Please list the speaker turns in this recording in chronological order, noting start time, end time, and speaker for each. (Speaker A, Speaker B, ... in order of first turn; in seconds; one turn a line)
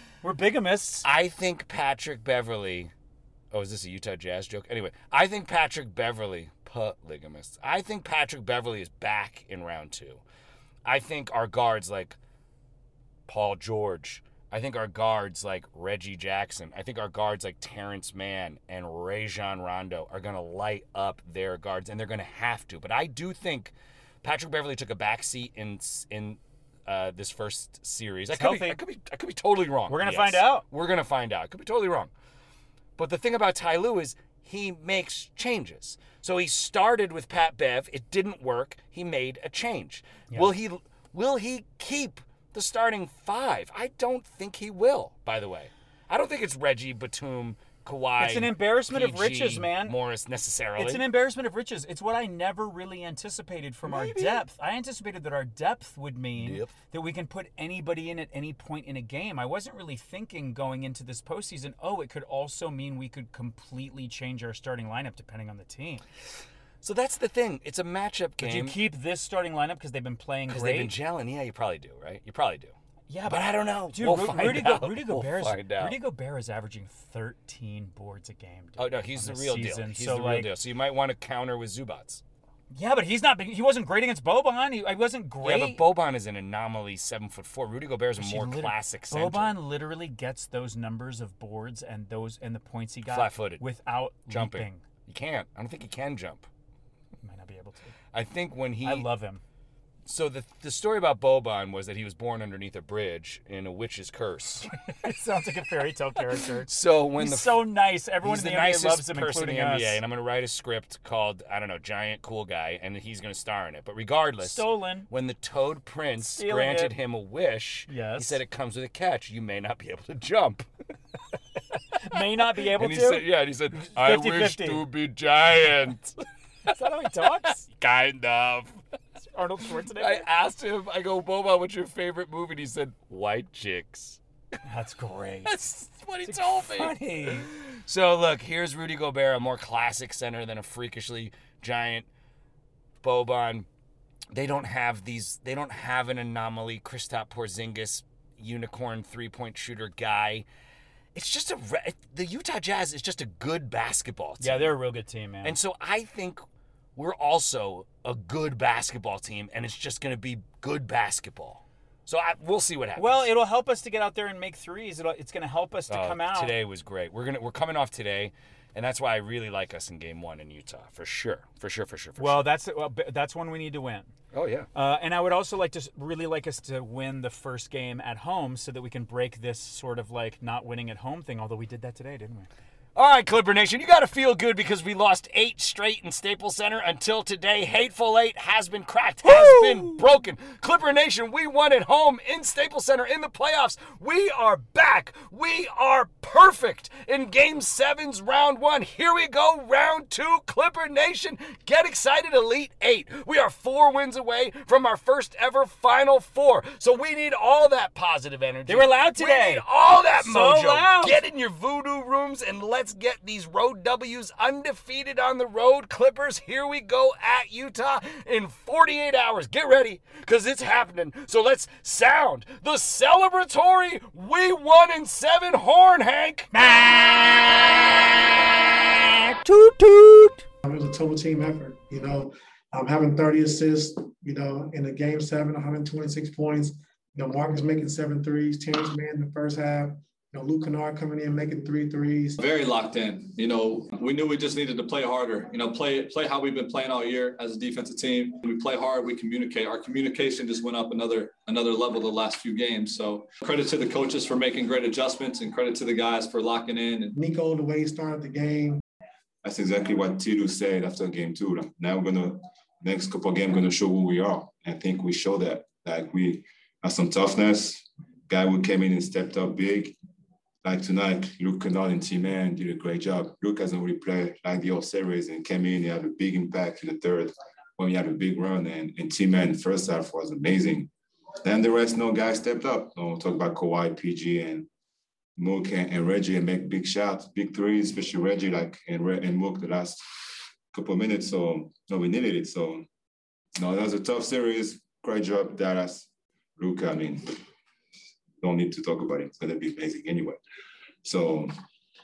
Speaker A: 0.2-1.1
Speaker B: 1.0-2.9
Speaker B: 3.5-10.2
Speaker B: 10.8-12.2
Speaker B: 13.3-32.1
Speaker A: 28.3-28.8
Speaker A: 29.9-30.7
Speaker B: 33.0-51.0
Speaker A: 48.2-50.0
Speaker A: 50.8-66.0
Speaker B: 53.8-54.5
Speaker B: 56.3-56.7
Speaker B: 66.8-68.8
Speaker A: 68.4-70.9
Speaker B: 70.5-72.7
Speaker A: 73.1-80.5
Speaker B: 73.2-76.0
Speaker B: 78.8-82.2
Speaker A: 82.7-85.8
Speaker B: 85.4-89.6
Speaker A: 88.2-94.8
Speaker B: 93.0-93.7
Speaker B: 94.2-96.5
Speaker A: 97.2-97.9
Speaker B: 98.1-99.1
Speaker A: 98.8-99.4
Speaker B: 100.0-104.7
Speaker A: 104.8-110.0
Speaker B: 106.6-120.7
Speaker A: 114.4-115.1
Speaker A: 116.2-117.0
Speaker A: 117.9-118.4
Speaker A: 122.0-124.9
Speaker B: 122.6-126.2
Speaker A: 126.7-127.7
Speaker B: 127.6-128.8
Speaker A: 129.2-130.3
Speaker B: 130.0-134.2
Speaker A: 134.6-135.6
Speaker B: 135.4-142.1
Speaker A: 136.2-137.5
Speaker B: 143.0-143.7
Speaker B: 144.3-150.4
Speaker B: 151.1-154.8
Speaker A: 154.4-155.6
Speaker B: 155.4-156.4
Speaker B: 156.9-163.3
Speaker A: 162.9-166.6
Speaker B: 165.9-172.5
Speaker A: 172.2-174.1
Speaker B: 174.3-174.7
Speaker A: 174.7-182.5
Speaker B: 182.9-226.8
Speaker A: 189.2-190.1
Speaker A: 208.7-211.2
Speaker A: 226.5-227.8
Speaker B: 227.4-227.7
Speaker A: 229.4-230.3
Speaker C: 230.6-242.4
Speaker D: 242.4-257.1
Speaker C: 257.1-258.8
Speaker E: 259.4-270.0
Speaker E: 270.6-280.9
Speaker E: 281.4-284.7
Speaker E: 285.4-290.0
Speaker E: 290.7-292.9
Speaker E: 293.5-297.4
Speaker E: 298.4-300.4
Speaker E: 301.0-301.5